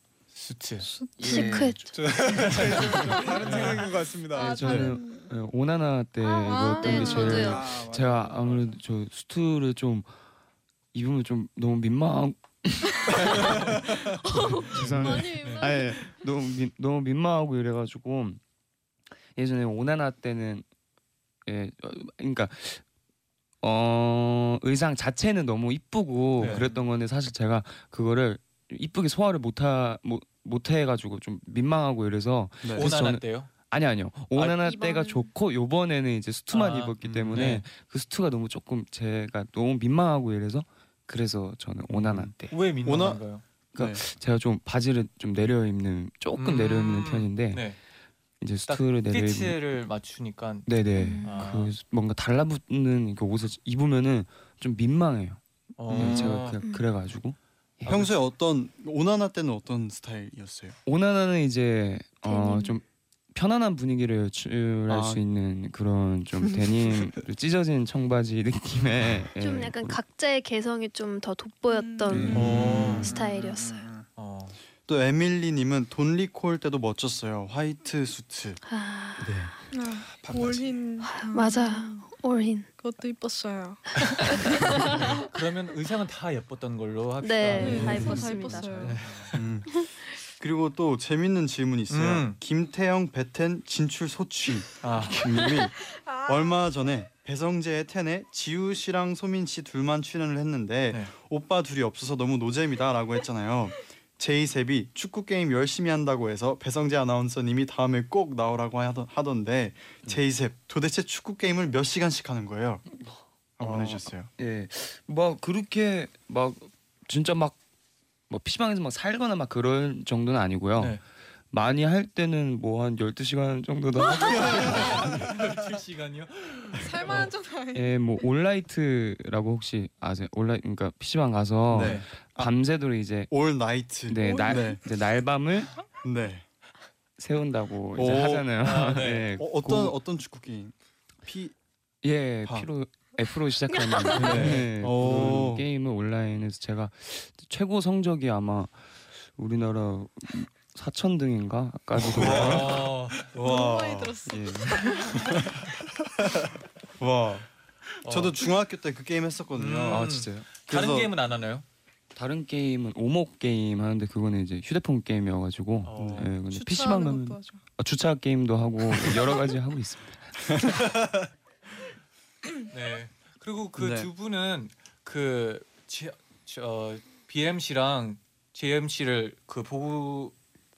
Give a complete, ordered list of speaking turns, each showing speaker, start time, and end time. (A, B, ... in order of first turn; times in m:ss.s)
0:00.4-0:00.9 A
0:00.8-0:01.7 B
0:01.2-0:01.9 C
0:01.2-0:02.0 D
0:01.9-0:04.7 E
0:02.4-0:02.8 A
0:02.8-0:03.5 B
0:03.4-0:03.9 A
0:04.4-0:10.1 C
0:04.4-0:05.3 B
0:04.6-0:04.9 F
0:06.2-0:07.5 B
0:06.8-0:07.8 D
0:07.0-0:08.7 E
0:10.9-0:18.4 C
0:13.1-0:13.7 D
0:14.2-0:16.1 D
0:14.8-0:15.7 A
0:19.4-0:20.7 C
0:21.4-0:22.8 C
0:23.6-0:42.6 C
0:26.4-0:26.7 A
0:26.4-0:26.7 F
0:32.6-0:32.9 F
0:32.7-0:33.5 A
0:34.6-0:35.3 D
0:36.5-0:37.6 A
0:41.9-0:43.4 A
0:42.8-0:43.2 F
0:43.7-0:47.8 C
0:43.8-0:44.0 F
0:46.4-0:47.8 A
0:48.4-0:49.6 C
0:48.7-0:50.7 A
0:50.7-0:57.9 C
0:51.0-0:51.4 D
0:51.2-0:51.8 A
0:55.8-0:56.6 A
0:55.9-0:56.4 F
0:57.8-0:58.2 A
0:57.9-1:00.8 F
1:00.9-1:10.0 C
1:02.3-1:02.8 D
1:04.9-1:05.2 F
1:08.7-1:09.0 A
1:09.4-1:13.8 D
1:11.7-1:12.3 B
1:12.1-1:12.8 C
1:12.1-1:13.1 F
1:12.3-1:13.1 A
1:13.0-1:14.1 E
1:14.2-1:14.6 A
1:14.9-1:18.6 F
1:18.7-1:19.5 D
1:19.2-1:19.5 F
1:19.7-1:22.1 B
1:20.2-1:20.8 E
1:21.0-1:22.7 D
1:22.8-1:25.2 B
1:24.1-1:25.2 D
1:24.5-1:29.4 A
1:27.2-1:29.0 D
1:27.5-1:29.0 B
1:27.6-1:28.2 F
1:29.3-1:52.8 F
1:31.9-1:32.4 A
1:34.8-1:35.4 A
1:35.8-1:36.6 B
1:53.0-1:57.6 C
1:53.6-1:54.3 F
1:58.3-2:05.4 C
2:04.1-2:04.6 B
2:04.6-2:07.3 A
2:06.8-2:08.0 B
2:07.7-2:13.3 C
2:11.7-2:12.6 F
2:11.8-2:12.1 A
2:13.3-2:14.8 F
2:14.1-2:15.7 C
2:14.2-2:14.8 B
2:16.0-2:16.4 F
2:17.2-2:20.0 C
2:18.0-2:18.5 F
2:18.6-2:19.4 A
2:19.4-2:21.6 F
2:22.0-2:32.9 C
2:24.2-2:25.6 F
2:24.2-2:24.6 A
2:32.1-2:33.2 A
2:32.2-2:32.8 F
2:33.3-2:34.2 F
2:33.4-2:35.4 B
2:34.3-2:35.3 C
2:37.0-2:37.5 F
2:38.0-2:38.5 A
2:38.1-2:40.1 F
2:39.6-2:41.6 A
2:39.9-2:40.5 C
2:40.6-2:41.1 F
2:42.2-2:50.6 C
2:45.8-2:46.3 A
2:46.0-2:46.3 F
2:46.5-2:47.6 B
2:52.7-3:00.3 A
2:53.8-2:54.1 F